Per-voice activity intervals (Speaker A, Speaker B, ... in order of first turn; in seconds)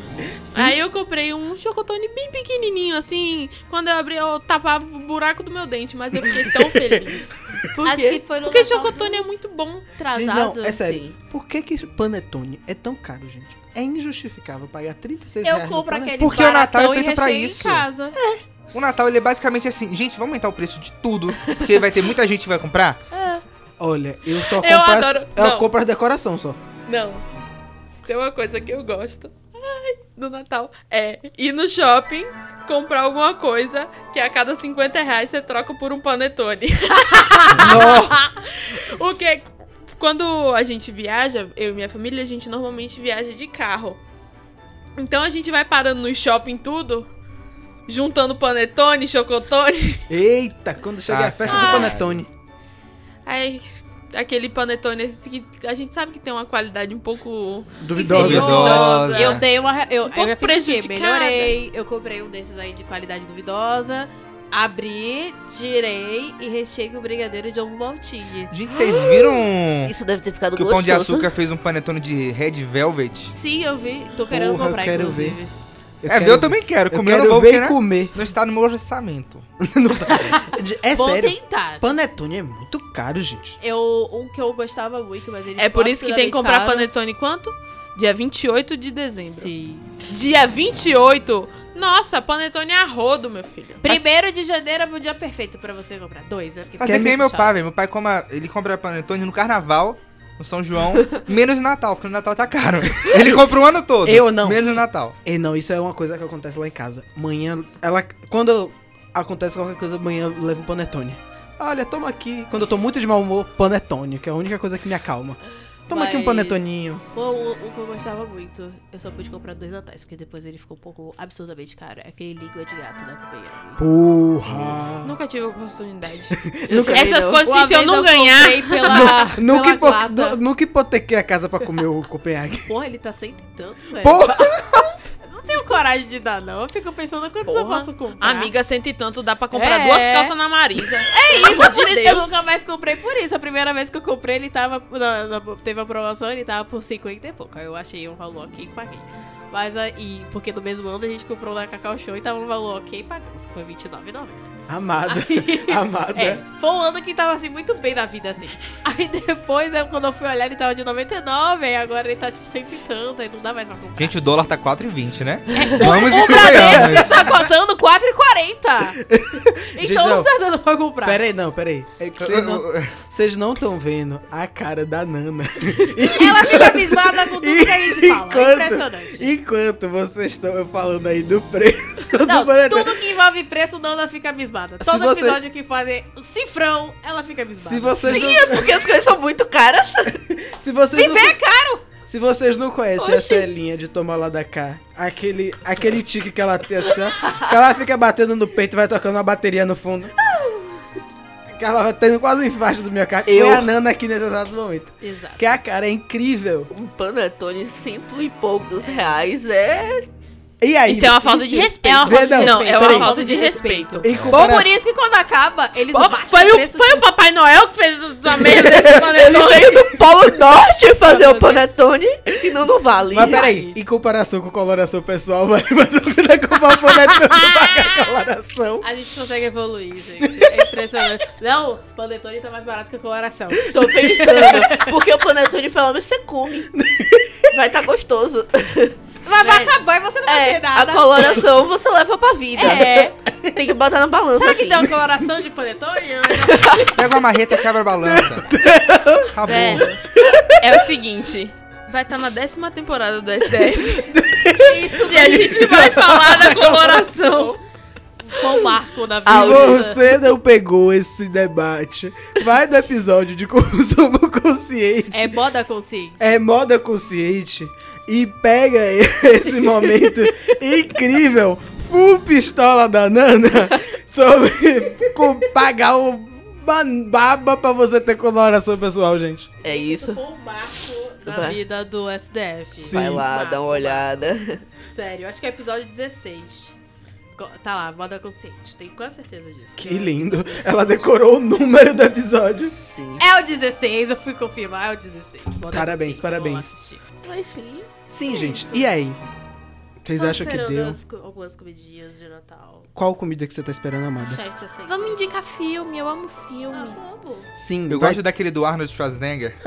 Speaker A: 0.5-0.7, 10.1-16.2, 18.1-18.4, 23.8-26.6, 37.5-38.2, 50.1-52.3, 57.8-58.7, 74.3-75.4, 76.0-78.2, 79.6-83.6, 104.0-117.0, 123.8-125.2, 126.3-127.1, 128.8-132.7, 134.0-135.0, 154.7-156.4, 166.4-167.4, 169.0-170.3, 171.0-183.1, 184.8-185.4, 187.6-188.8, 190.3-191.4, 192.0-200.1, 201.5-206.7, 210.6-213.2, 214.0-214.7, 218.5-218.8, 223.1-228.8, 230.2-231.1, 233.7-234.7, 236.7-237.6, 248.0-250.9, 253.8-257.4, 259.2-265.3, 266.2-279.5, 282.8-283.3, 289.8-292.7, 295.7-296.7, 298.1-299.2, 300.0-301.0, 302.9-304.4, 307.5-308.2
Speaker B: 0.5-7.5, 8.4-10.0, 24.4-25.7, 26.9-27.2, 27.9-44.0, 45.0-47.1, 47.9-50.1, 51.5-51.9, 53.2-59.4, 60.1-61.5, 85.6-94.0, 125.0-129.2, 137.4-142.5, 210.9-214.5, 215.9-219.9, 239.4-239.7, 249.4-254.1, 255.0-257.6, 304.9-307.0
Speaker C: 7.7-8.2, 10.8-11.2, 68.8-69.3, 69.8-71.3, 126.7-127.4, 188.0-190.2, 193.0-193.4, 200.2-200.8, 203.2-203.6, 206.7-210.1, 218.6-223.4, 233.7-236.7, 237.5-239.0, 240.2-244.9, 246.4-246.9, 259.2-260.0, 279.6-280.2, 281.2-281.6, 282.9-284.6, 292.8-293.2, 297.2-297.9
Speaker D: 7.8-9.2, 10.0-10.8, 15.4-18.2, 37.1-38.2, 58.0-68.5, 73.3-75.5, 80.1-81.9, 83.6-86.9, 89.3-89.9, 93.8-97.5, 115.9-123.8, 127.4-130.4, 132.7-134.7, 135.2-138.5, 139.5-140.3, 141.0-154.5, 155.1-164.2, 165.5-169.0, 169.7-171.2, 176.1-179.3, 182.2-188.4, 190.9-191.8, 205.0-205.5, 208.8-209.1, 211.8-217.1, 221.0-221.6, 223.1-223.8, 228.8-234.9, 239.2-241.6, 242.5-243.2, 244.3-247.0, 254.6-256.0, 258.2-260.0, 265.1-266.3, 279.6-284.2, 284.8-286.8, 287.4-290.9, 293.2-297.0, 298.2-298.9, 300.1-302.9, 304.2-305.2, 306.7-307.5
Speaker E: 16.2-17.9, 18.7-23.0, 51.1-52.2, 58.1-59.4, 68.5-69.9, 70.5-73.3, 76.1-79.5, 96.8-105.2, 164.0-167.3, 172.2-172.9, 214.1-214.4, 246.9-248.5, 249.3-249.9, 307.9-309.6